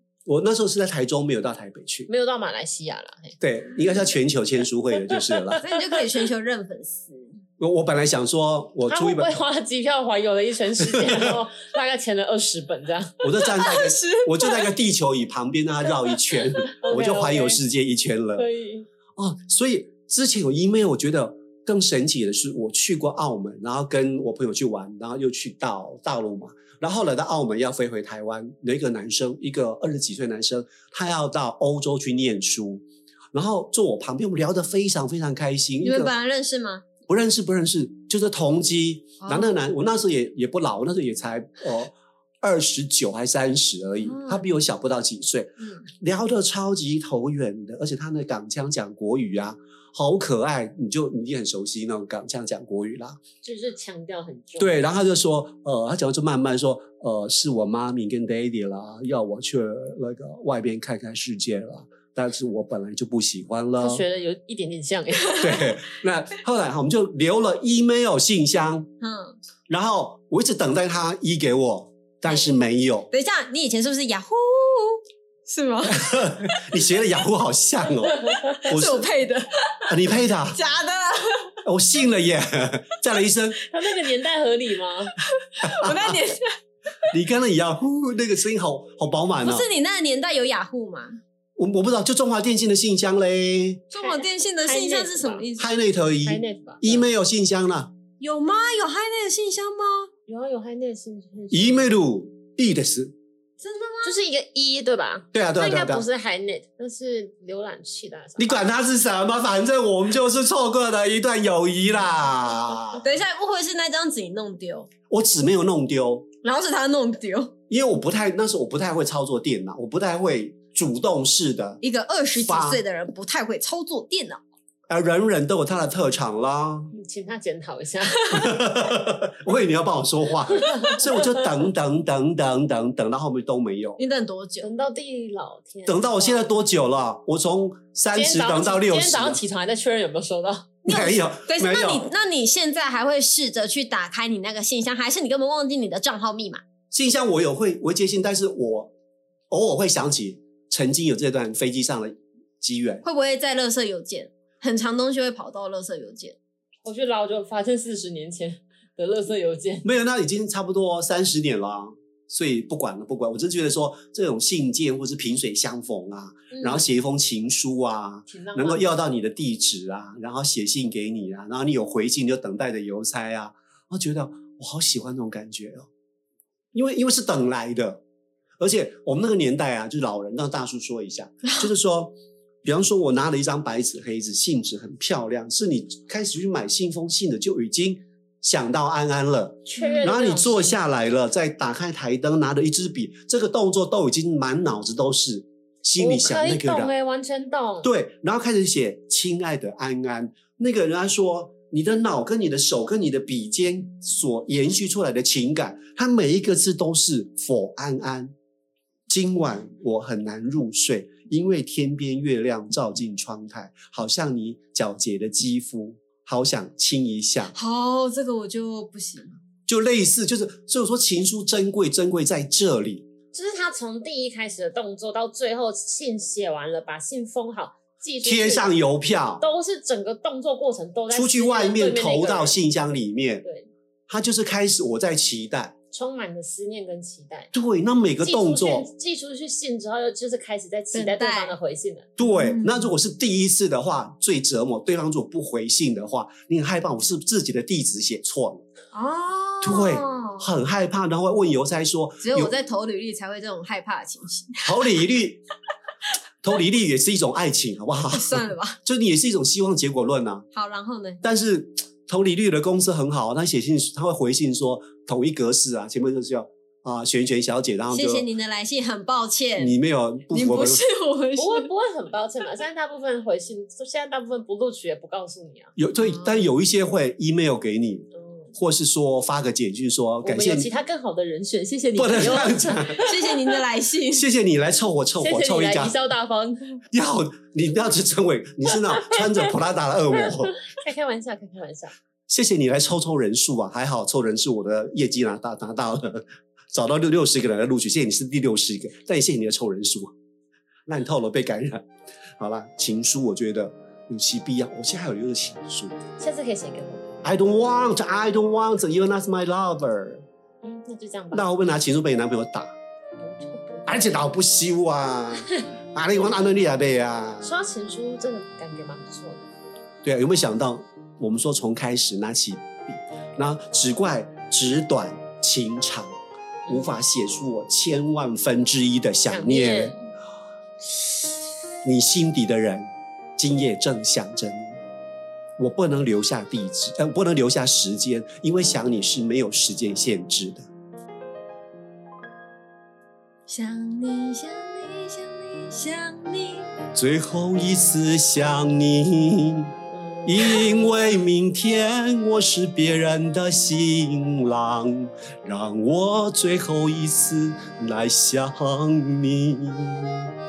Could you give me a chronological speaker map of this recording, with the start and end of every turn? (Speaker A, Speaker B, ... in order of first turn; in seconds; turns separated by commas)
Speaker A: 0.3-2.1, Speaker B: 2.1-3.4, Speaker A: 3.4-5.6, Speaker B: 5.1-6.1, Speaker C: 5.6-7.3, Speaker A: 7.6-9.4, Speaker B: 8.9-13.2, Speaker A: 10.9-11.4, Speaker A: 13.2-18.5, Speaker C: 13.4-14.7, Speaker B: 16.8-17.6, Speaker B: 18.4-18.9, Speaker A: 19.2-36.1, Speaker C: 35.8-36.8, Speaker A: 37.1-53.2, Speaker C: 39.2-39.6, Speaker C: 44.0-44.5, Speaker B: 53.4-54.9, Speaker A: 54.6-64.0, Speaker B: 63.8-65.6, Speaker A: 65.4-68.9, Speaker C: 69.0-69.4, Speaker A: 69.7-73.1, Speaker C: 72.3-72.5, Speaker C: 73.1-76.6, Speaker A: 75.9-79.1, Speaker C: 78.7-80.0, Speaker A: 79.9-80.6, Speaker C: 80.5-81.5, Speaker A: 81.6-83.6, Speaker B: 83.7-85.1, Speaker C: 85.4-86.5, Speaker A: 85.6-86.2, Speaker A: 87.1-89.7, Speaker C: 89.4-91.2, Speaker A: 91.6-93.9, Speaker C: 93.9-95.7, Speaker B: 94.0-95.5, Speaker A: 95.6-97.9, Speaker B: 96.2-97.1, Speaker C: 98.2-100.1, Speaker B: 100.3-101.9, Speaker A: 101.5-103.1, Speaker C: 103.6-104.2, Speaker B: 104.0-108.7, Speaker A: 105.3-106.1, Speaker A: 108.4-113.0, Speaker C: 113.0-114.9, Speaker A: 115.1-116.3, Speaker C: 116.4-117.5, Speaker A: 117.7-121.8, Speaker C: 121.8-124.4, Speaker A: 122.4-122.8, Speaker A: 124.9-126.9, Speaker B: 126.9-128.4, Speaker A: 128.3-134.0, Speaker B: 130.7-131.3, Speaker C: 134.0-134.7, Speaker B: 134.6-136.5, Speaker A: 135.9-139.4, Speaker B: 138.1-140.8, Speaker C: 140.8-146.6, Speaker A: 140.9-142.1, Speaker A: 146.9-148.9, Speaker A: 149.5-153.0, Speaker C: 153.0-156.4, Speaker B: 156.8-159.8, Speaker A: 159.8-175.9, Speaker B: 166.5-166.8, Speaker B: 168.3-168.9, Speaker A: 176.7-178.0, Speaker A: 178.6-196.9, Speaker B: 189.7-190.8, Speaker B: 196.0-197.9, Speaker A: 197.8-208.3, Speaker A: 209.1-217.6, Speaker C: 217.5-219.4, Speaker A: 219.7-223.1, Speaker B: 223.3-228.8, Speaker A: 228.2-229.4, Speaker B: 229.4-232.6, Speaker A: 231.1-233.4, Speaker B: 233.4-233.7, Speaker A: 234.1-235.8, Speaker B: 235.9-237.5, Speaker A: 237.5-238.9, Speaker B: 238.2-242.1, Speaker C: 240.9-241.6, Speaker A: 242.2-248.7, Speaker C: 242.2-242.9, Speaker C: 248.9-250.5, Speaker A: 249.6-252.5, Speaker C: 252.2-254.8, Speaker A: 254.6-255.4, Speaker A: 256.4-260.5, Speaker C: 258.1-258.8, Speaker C: 260.5-261.2, Speaker A: 261.2-268.3, Speaker C: 267.9-269.8, Speaker A: 269.6-270.9, Speaker C: 270.3-271.7, Speaker B: 271.4-275.7, Speaker A: 275.8-280.7, Speaker C: 276.0-276.4, Speaker B: 278.2-278.5, Speaker B: 280.2-283.6, Speaker A: 282.0-283.0, Speaker C: 283.0-284.3, Speaker A: 284.1-286.0, Speaker B: 285.2-286.8, Speaker A: 286.9-290.6, Speaker B: 290.2-291.9, Speaker A: 292.3-300.1, Speaker A: 300.9-301.9, Speaker A: 302.4-306.0, Speaker B: 306.2-307.1, Speaker A: 307.2-310.2, Speaker B: 310.6-311.4, Speaker A: 311.3-312.7, Speaker B: 313.2-314.1, Speaker A: 313.9-317.6, Speaker B: 317.4-319.5, Speaker A: 320.0-326.2, Speaker B: 326.7-326.9, Speaker A: 326.7-329.9, Speaker B: 329.3-330.0, Speaker A: 331.8-334.8, Speaker A: 335.6-340.7, Speaker C: 343.5-346.7, Speaker A: 346.9-349.7, Speaker B: 349.9-350.4, Speaker A: 350.3-360.3